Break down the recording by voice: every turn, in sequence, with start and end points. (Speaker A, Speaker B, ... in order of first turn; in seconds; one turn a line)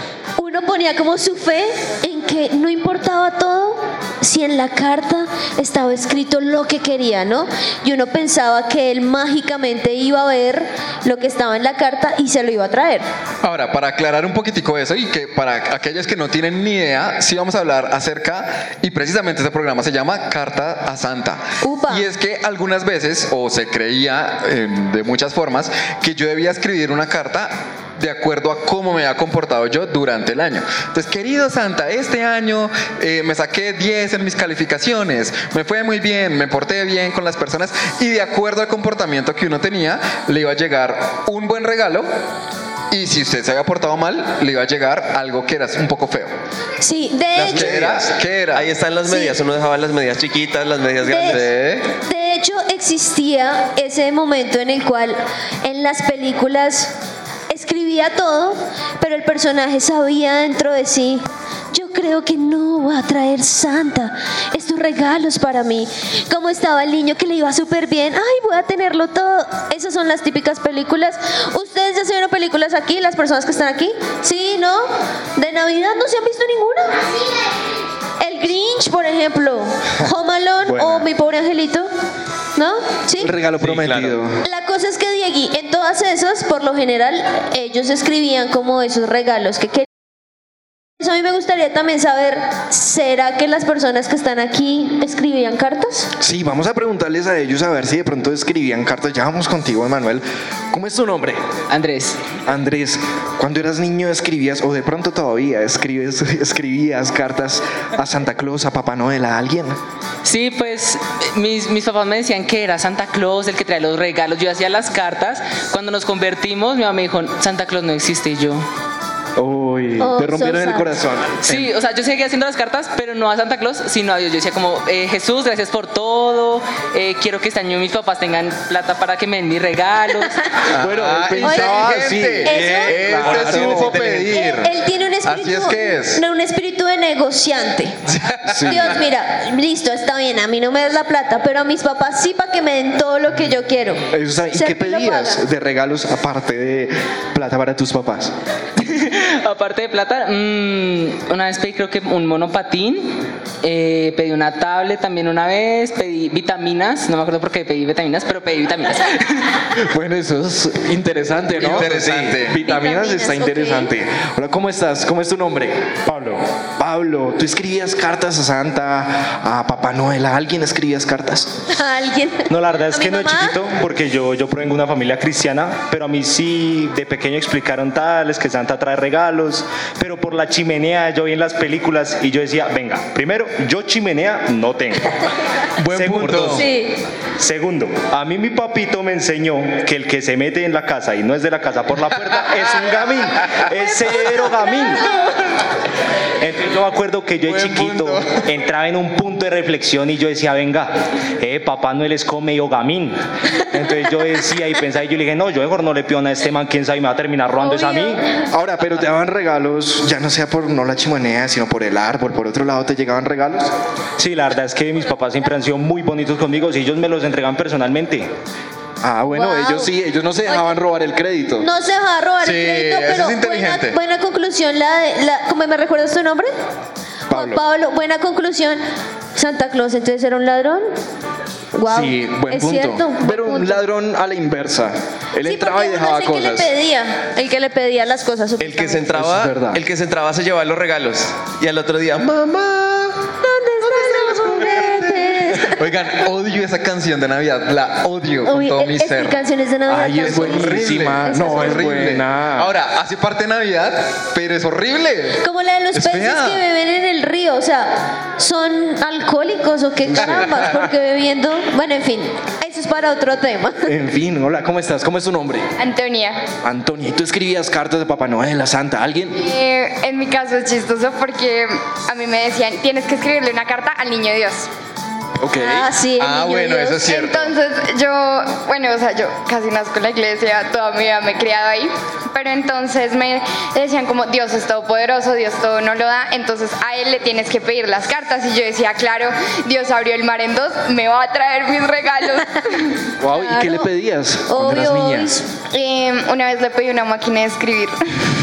Speaker A: 0.4-13.1
Speaker B: 13.4-42.1
Speaker A: 21.6-22.1
Speaker B: 42.9-46.3
Speaker A: 46.8-47.7
Speaker B: 47.4-48.7
Speaker C: 47.4-51.5
Speaker A: 49.1-49.3
Speaker A: 51.1-51.4
Speaker B: 51.2-51.9
Speaker A: 52.0-56.9
Speaker A: 57.5-77.0
Speaker A: 78.2-81.9
Speaker D: 80.7-81.1
Speaker A: 82.6-83.3
Speaker D: 83.2-84.4
Speaker C: 83.6-84.2
Speaker A: 84.4-89.9
Speaker A: 91.0-96.1
Speaker D: 96.2-101.4
Speaker E: 101.7-102.2
Speaker D: 102.5-109.8
Speaker E: 110.2-118.7
Speaker D: 119.4-121.7
Speaker A: 120.0-120.9
Speaker E: 121.4-130.5
Speaker B: 130.7-134.7
Speaker D: 130.8-134.2
Speaker A: 131.4-133.0
Speaker C: 133.2-134.3
Speaker A: 134.3-138.0
Speaker B: 135.2-136.2
Speaker B: 138.1-138.9
Speaker D: 138.5-138.9
Speaker A: 138.6-145.4
Speaker D: 144.1-148.3
Speaker E: 148.8-159.5
Speaker D: 159.8-171.6
Speaker B: 161.6-162.6
Speaker A: 162.6-163.9
Speaker A: 171.7-173.6
Speaker F: 172.5-185.1
Speaker B: 185.8-186.7
Speaker F: 185.9-186.6
Speaker A: 186.5-186.9
Speaker F: 187.4-195.1
Speaker F: 196.4-208.2
Speaker B: 197.4-198.5
Speaker A: 207.7-208.1
Speaker D: 208.5-213.7
Speaker F: 214.2-218.3
Speaker D: 219.0-221.7
Speaker A: 219.3-219.9
Speaker A: 221.6-226.5
Speaker B: 222.4-224.0
Speaker D: 227.3-227.6
Speaker A: 227.3-228.8
Speaker A: 229.4-230.9
Speaker A: 231.7-233.8
Speaker D: 231.9-236.7
Speaker A: 235.4-239.1
Speaker C: 238.6-243.2
Speaker D: 239.2-239.8
Speaker A: 243.4-245.8
Speaker B: 245.6-249.4
Speaker A: 248.5-251.9
Speaker D: 249.9-252.7
Speaker B: 250.3-255.4
Speaker A: 255.4-263.9
Speaker B: 255.9-256.6
Speaker D: 260.1-260.6
Speaker D: 263.9-265.6
Speaker G: 265.8-266.4
Speaker D: 266.6-269.4
Speaker G: 269.4-274.7
Speaker D: 275.4-275.9
Speaker A: 275.6-277.2
Speaker B: 276.2-277.6
Speaker G: 277.1-292.9
Speaker D: 293.2-295.4
Speaker A: 293.3-293.9
Speaker A: 294.5-295.4
Speaker G: 295.7-298.0